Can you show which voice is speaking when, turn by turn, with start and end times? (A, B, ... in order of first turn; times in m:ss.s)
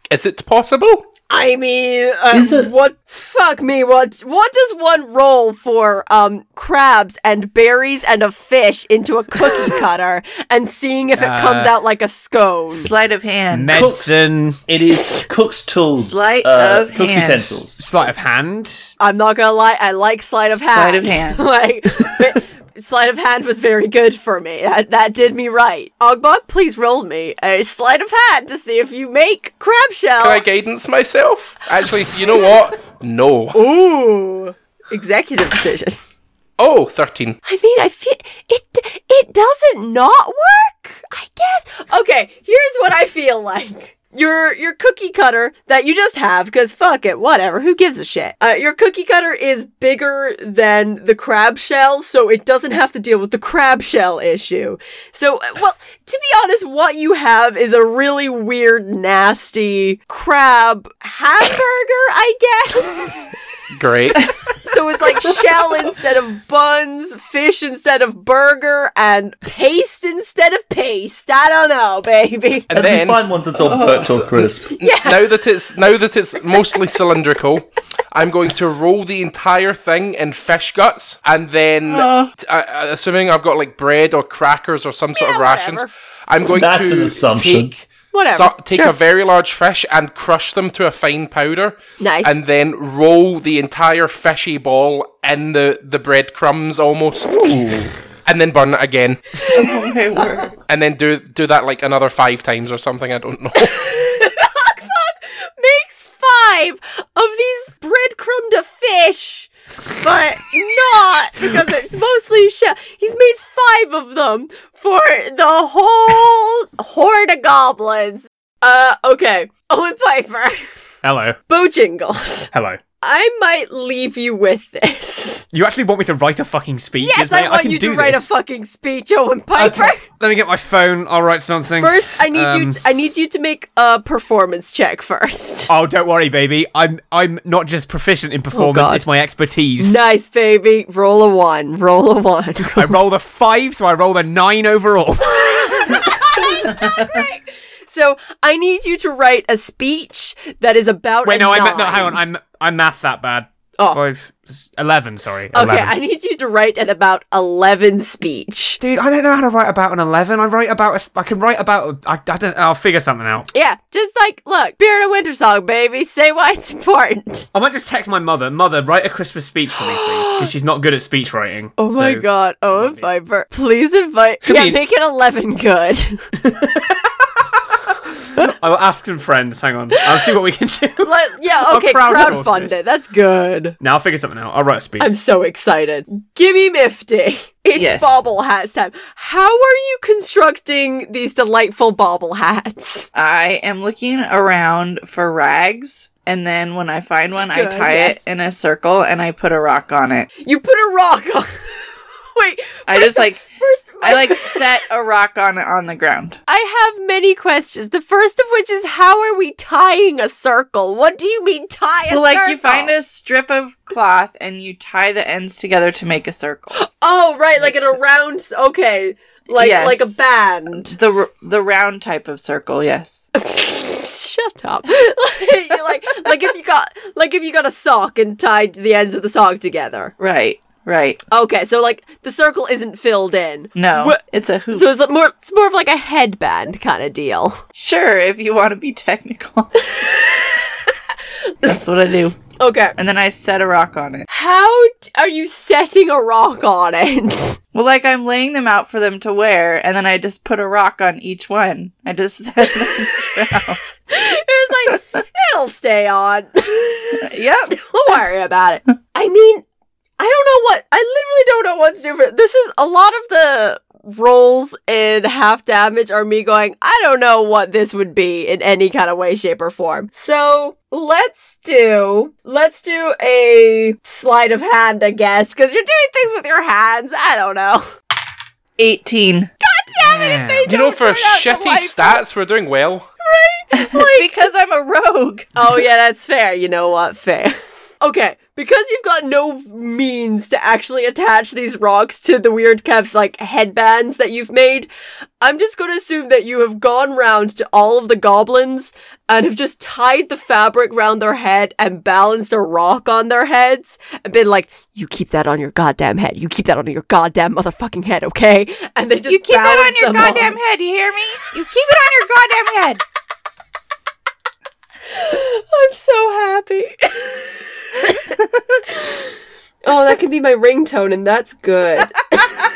0:00.1-0:01.1 A
0:01.3-0:12.9 B
0:02.3-0:02.7 C
0:11.2-0:11.7 D
0:12.7-0:13.8 E
0:13.5-0:14.6 D
0:13.7-0:17.9 C
0:16.0-0:17.6 E
0:17.8-0:18.9 D
0:19.0-0:30.4 B
0:20.6-0:21.5 E
0:30.2-0:33.6 A
0:33.6-0:36.0 B
0:36.6-0:37.4 A
0:37.4-1:03.3 B
1:03.7-1:04.3 A
1:04.6-1:12.7 B
1:12.7-1:13.2 A
1:12.7-1:14.8 C
1:13.6-1:14.1 E
1:13.9-1:39.4 A
1:14.8-1:15.4 B
1:21.9-1:22.3 E
1:25.1-1:25.9 B
1:26.5-1:27.7 C
1:28.1-1:29.0 B
1:32.0-1:32.4 B
1:39.4-1:39.7 B
1:39.4-1:40.6 E
1:40.7-1:43.8 A
1:43.6-2:00.6 B
2:01.0-2:01.4 D
2:01.5-2:05.5 B
2:02.5-2:02.8 D
2:05.5-2:08.3 D
2:07.0-2:10.0 B
2:09.6-2:12.8 D
2:11.8-2:15.7 B
2:15.7-2:20.0 D
2:18.5-2:19.0 B
2:19.8-2:23.0 B
2:22.6-2:26.4 D
2:25.2-2:32.2 B
2:31.2-2:36.0 D
2:35.5-2:38.8 B
2:38.8-2:43.5 D
2:43.5-2:47.5 B
2:47.5-2:53.1 D
2:49.9-2:50.5 B
2:51.8-2:56.3 B
2:54.4-2:54.8 D
2:56.4-3:02.8 D
3:01.0-3:03.8 B
3:03.8-3:05.1 D
3:05.0-3:13.1 B
3:07.8-3:08.2 E
3:13.1-3:20.3 E
3:17.4-3:18.2 B
3:20.4-3:24.7 B
3:22.9-3:23.4 E
3:24.0-3:26.4 E
3:26.5-3:32.9 B
3:32.1-3:36.8 E
3:36.8-3:41.0 B
3:37.6-3:37.9 E
3:39.6-3:40.2 E
3:40.8-3:43.3 E
3:43.4-3:50.1 B
3:50.2-3:51.2 E
3:51.3-3:57.6 B
3:53.8-3:54.9 E
3:57.8-3:59.9 E
3:59.8-4:00.9 B
4:01.6-4:02.4 E
4:02.6-4:03.0 B
4:03.0-4:04.3 E
4:04.3-4:07.6 B
4:07.7-4:13.8 E
4:12.8-4:13.3 B
4:14.1-4:19.6 B
4:17.2-4:17.8 E
4:20.2-4:37.9 B
4:38.8-4:39.5 E
4:39.6-4:42.2 B
4:40.1-4:40.7 D
4:40.7-4:43.1 A
4:43.2-4:44.4 B
4:43.7-4:45.5 E
4:45.6-4:54.9 B
4:55.4-5:10.6 B
5:09.3-5:13.0 E
5:15.1-5:19.3 B
5:19.8-5:22.6 B